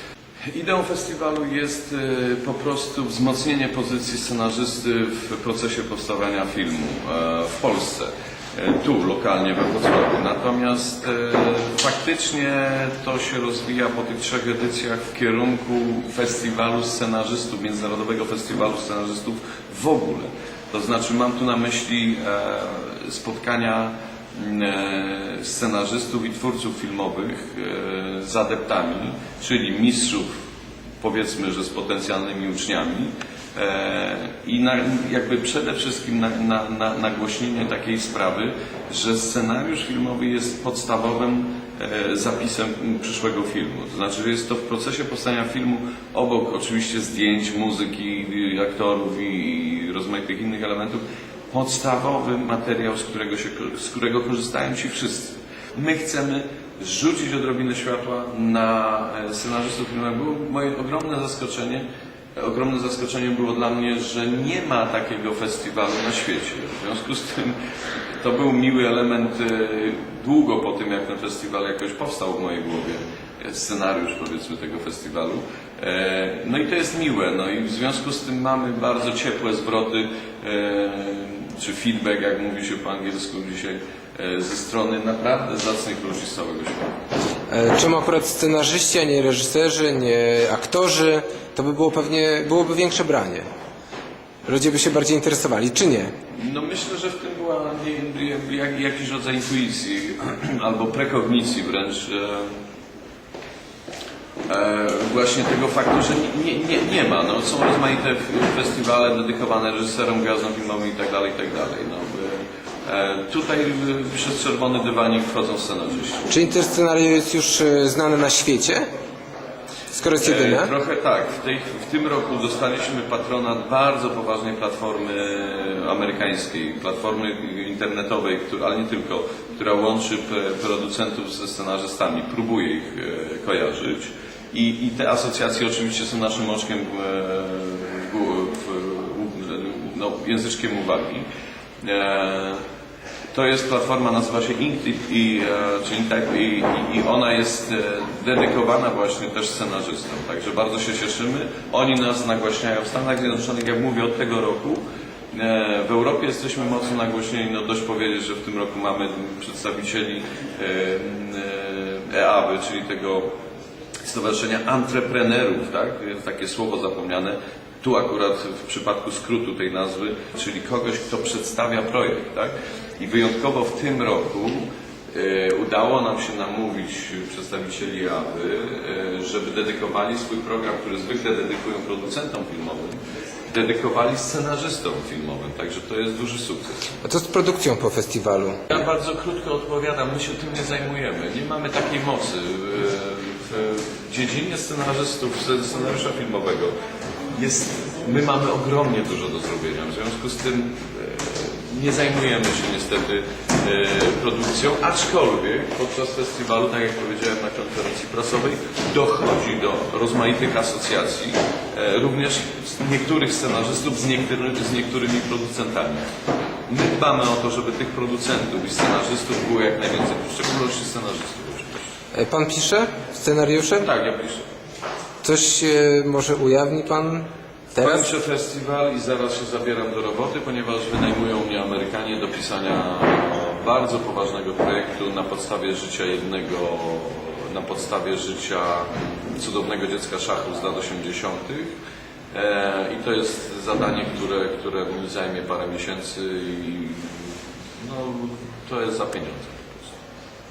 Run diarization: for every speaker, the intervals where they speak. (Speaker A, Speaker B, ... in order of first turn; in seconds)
Speaker A: 0.5-30.3, 31.0-61.8, 62.4-67.5, 68.2-86.9, 96.3-102.5, 104.5-116.3, 120.2-141.2, 141.8-142.6, 143.3-154.8, 155.3-163.3, 164.0-183.0, 183.5-186.9, 188.7-196.7, 197.3-216.0, 216.7-221.9, 223.8-224.4, 227.8-241.7, 242.3-250.0
Speaker B: 87.5-93.5, 94.5-96.1, 116.3-118.8, 119.9-120.7, 187.0-188.7, 222.1-223.9, 225.2-228.1